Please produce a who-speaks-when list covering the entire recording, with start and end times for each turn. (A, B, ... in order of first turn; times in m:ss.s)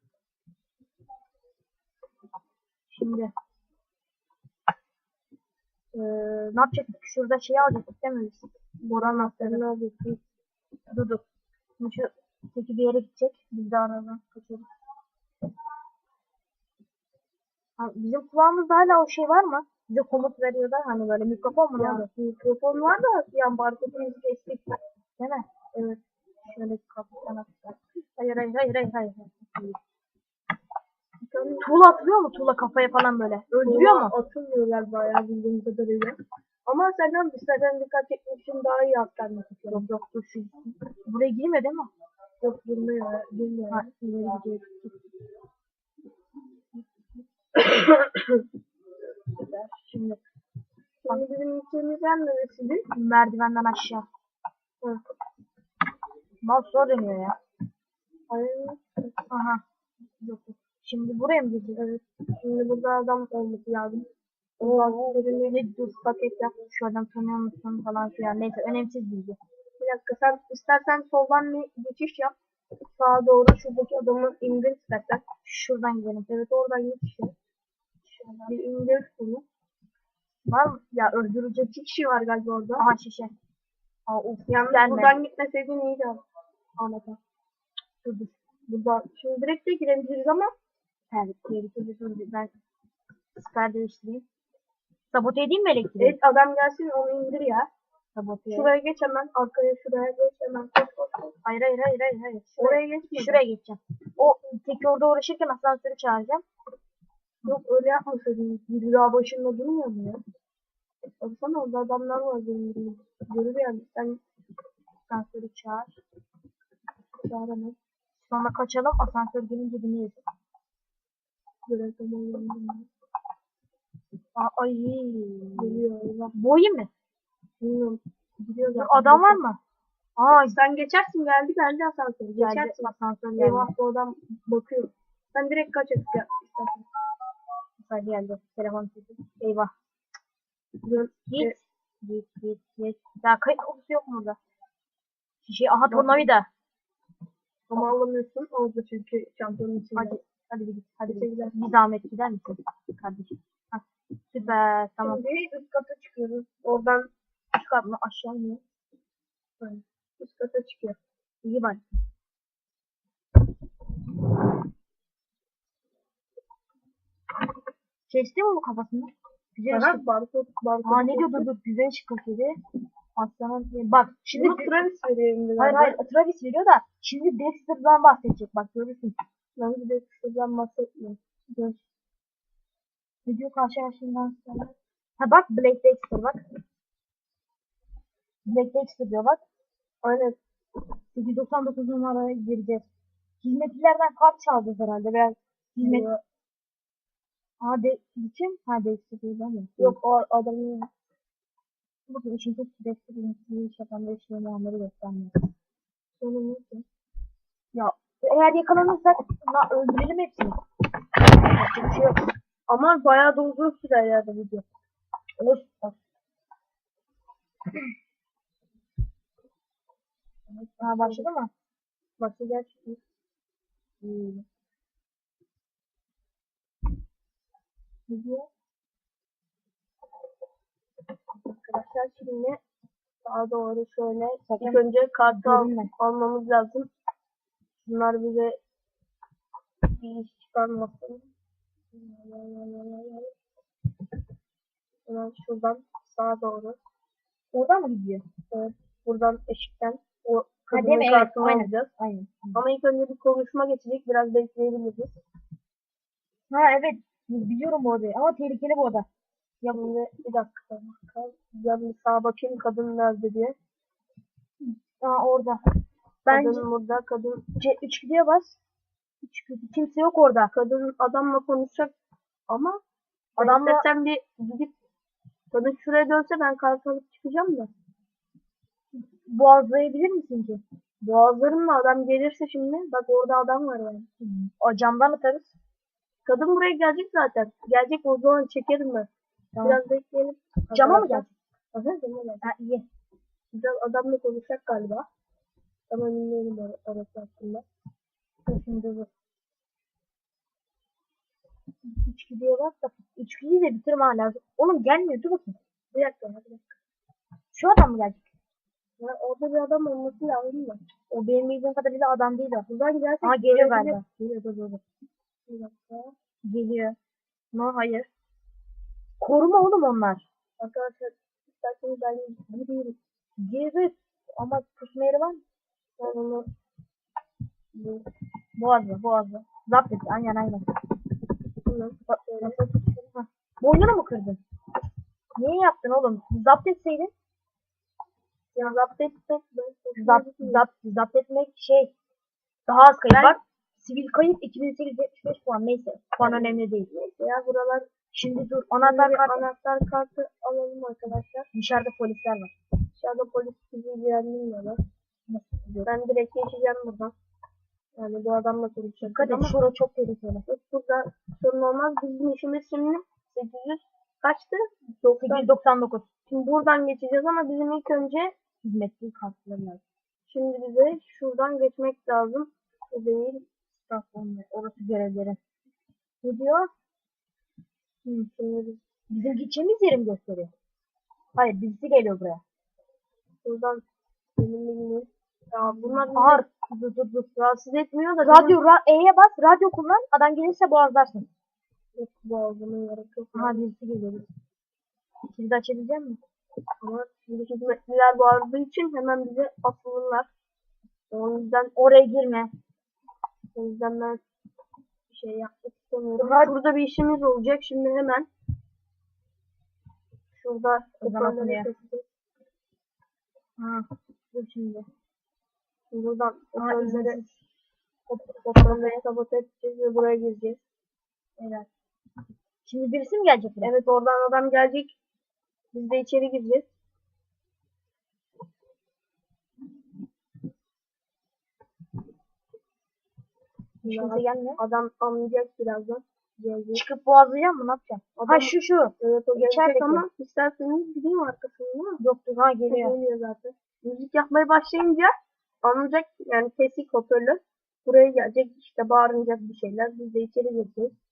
0:02.9-0:03.3 A
0:05.9-0:09.6 A
0:08.8-0:10.2 B
0:10.9-0:11.2 A
0:11.8-0:14.7 A
0:17.8-0:22.1 A
0:21.8-0:24.8 B
0:25.2-0:25.5 A
0:26.5-0:29.8 A
0:31.2-0:31.7 B
0:31.6-0:34.1 A
0:33.6-0:39.9 B
0:39.7-0:41.9 A
0:42.4-0:44.7 B
0:43.7-0:44.7 A
0:47.6-0:48.4 B
0:49.4-0:50.2 A
0:51.0-0:52.8 B
0:52.9-0:54.1 A
0:56.4-0:57.4 A
0:58.3-0:59.2 B
0:59.3-0:59.6 A
1:00.2-1:01.8 A
1:01.8-1:04.1 B
1:04.6-1:06.6 B
1:04.6-1:06.0 A
1:06.6-1:09.4 A
1:09.8-1:12.4 B
1:13.0-1:15.2 B
1:15.4-1:16.3 A
1:16.3-1:17.3 B
1:18.2-1:18.5 A
1:18.4-1:19.4 B
1:20.5-1:21.3 A
1:21.1-1:22.9 B
1:22.8-1:23.3 A
1:24.1-1:25.2 A
1:24.5-1:26.2 B
1:26.8-1:27.2 B
1:28.0-1:28.4 A
1:28.7-1:30.5 B
1:31.1-1:32.5 A
1:33.4-1:34.2 A
1:35.1-1:36.2 A
1:36.0-1:37.7 B
1:38.2-1:38.7 A
1:38.5-1:41.4 B
1:41.4-1:46.4 A
1:42.6-1:43.4 B
1:47.4-1:48.7 B
1:48.7-1:50.2 A
1:51.2-1:54.2 B
1:55.1-1:56.0 A
1:57.2-1:57.8 B
1:58.2-2:00.2 A
2:01.7-2:02.9 B
2:04.4-2:06.9 A
2:05.6-2:06.3 B
2:07.6-2:09.4 B
2:08.7-2:09.6 A
2:10.2-2:10.6 A
2:10.3-2:16.9 B
2:12.4-2:13.7 A
2:17.8-2:19.7 A
2:20.9-2:21.6 B
2:20.9-2:24.4 A
2:25.4-2:26.5 A
2:25.9-2:26.2 B
2:27.7-2:30.2 B
2:30.0-2:36.5 A
2:31.1-2:31.6 B
2:35.0-2:35.5 B
2:36.6-2:37.1 B
2:37.6-2:38.6 A
2:39.6-2:41.0 B
2:41.4-2:41.8 A
2:48.1-2:50.0 A
2:49.7-2:51.5 B
2:50.8-2:52.6 A
2:53.2-2:54.8 A
2:54.3-2:56.0 B
2:55.6-2:59.2 A
2:59.6-3:01.8 B
3:03.3-3:06.4 A
3:08.4-3:09.4 A
3:10.0-3:10.4 B
3:11.1-3:12.9 A
3:13.4-3:16.1 A
3:15.8-3:16.2 B
3:17.6-3:20.0 A
3:19.8-3:20.9 B
3:22.1-3:25.4 A
3:26.2-3:26.8 B
3:27.7-3:30.6 A
3:31.4-3:32.2 A
3:32.7-3:34.7 B
3:35.4-3:36.0 A
3:40.5-3:41.3 B
3:40.8-3:41.5 A
3:42.2-3:43.0 B
3:44.0-3:44.4 B
3:48.1-3:48.5 B
3:51.4-3:52.6 B
3:53.2-3:56.9 B
3:54.5-3:55.9 A
3:57.8-3:58.6 B
3:59.9-4:01.3 B
4:01.9-4:03.3 B
4:05.1-4:06.8 B
4:07.5-4:08.2 A
4:08.5-4:11.9 B
4:10.7-4:12.6 A
4:12.6-4:15.2 B
4:16.5-4:19.1 A
4:19.6-4:19.9 A
4:19.7-4:23.6 B
4:24.6-4:25.6 A
4:26.3-4:26.7 A
4:26.3-4:27.4 B
4:27.6-4:28.6 A
4:29.2-4:30.5 A
4:30.5-4:31.9 B
4:32.5-4:32.8 B
4:33.4-4:33.8 A
4:33.4-4:34.7 B
4:35.5-4:37.7 B
4:38.9-4:40.6 A
4:41.0-4:44.1 B
4:44.2-4:45.5 A
4:46.3-4:49.1 B
4:49.5-4:49.8 A
4:49.6-4:52.5 B
4:50.7-4:51.3 A
4:52.4-4:52.8 A
4:53.5-4:55.1 B
4:55.9-4:57.6 B
4:58.5-4:59.1 A
5:01.8-5:05.6 A
5:05.9-5:06.8 B
5:07.5-5:08.3 A
5:09.0-5:10.8 B
5:11.1-5:12.7 A
5:12.7-5:14.0 B
5:13.2-5:14.8 A
5:15.5-5:16.1 B
5:16.4-5:17.0 A
5:17.5-5:18.1 A
5:19.2-5:20.2 A
5:20.6-5:23.0 B
5:23.4-5:25.4 A
5:26.0-5:26.5 B
5:27.7-5:28.1 B
5:28.6-5:30.6 A
5:31.7-5:32.7 B
5:32.1-5:34.4 A
5:35.4-5:37.1 A
5:38.6-5:40.6 B
5:40.0-5:41.9 A
5:42.7-5:46.9 A
5:43.1-5:43.4 B
5:46.2-5:47.9 B
5:48.1-5:49.4 A
5:48.8-5:51.5 B
5:51.5-5:52.5 A
5:53.0-5:54.8 B
5:55.3-5:55.9 A
5:55.9-5:57.1 B
5:58.0-5:59.6 B
5:59.0-6:00.4 A
6:00.5-6:05.5 B
6:05.2-6:06.0 A
6:06.3-6:08.3 B
6:08.6-6:09.8 A
6:10.3-6:13.4 B
6:13.8-6:15.4 A
6:16.2-6:16.7 A
6:18.4-6:18.8 B
6:19.1-6:20.5 A
6:21.4-6:22.4 A
6:23.4-6:23.8 B
6:24.4-6:26.5 B
6:25.8-6:27.6 A
6:27.5-6:28.6 B
6:28.2-6:31.3 A
6:32.0-6:33.6 B
6:33.4-6:34.3 A
6:35.3-6:36.2 A
6:36.8-6:40.3 B
6:41.1-6:41.7 B
6:41.8-6:42.5 A
6:43.6-6:44.2 B
6:45.1-6:48.3 B
6:46.2-6:46.5 A
6:50.3-6:52.0 B
6:51.0-6:51.7 A
6:53.6-6:54.9 A
6:55.9-6:57.2 B
6:56.6-6:57.4 A
6:58.1-6:59.0 A
6:58.5-7:00.6 B
7:01.4-7:01.7 A
7:02.6-7:03.7 A
7:03.6-7:04.9 B
7:05.7-7:06.7 B
7:13.8-7:14.6 A
7:13.8-7:16.8 B
7:16.8-7:20.0 A
7:18.2-7:22.0 B
7:22.0-7:23.0 A
7:22.7-7:25.1 B
7:25.6-7:30.9 B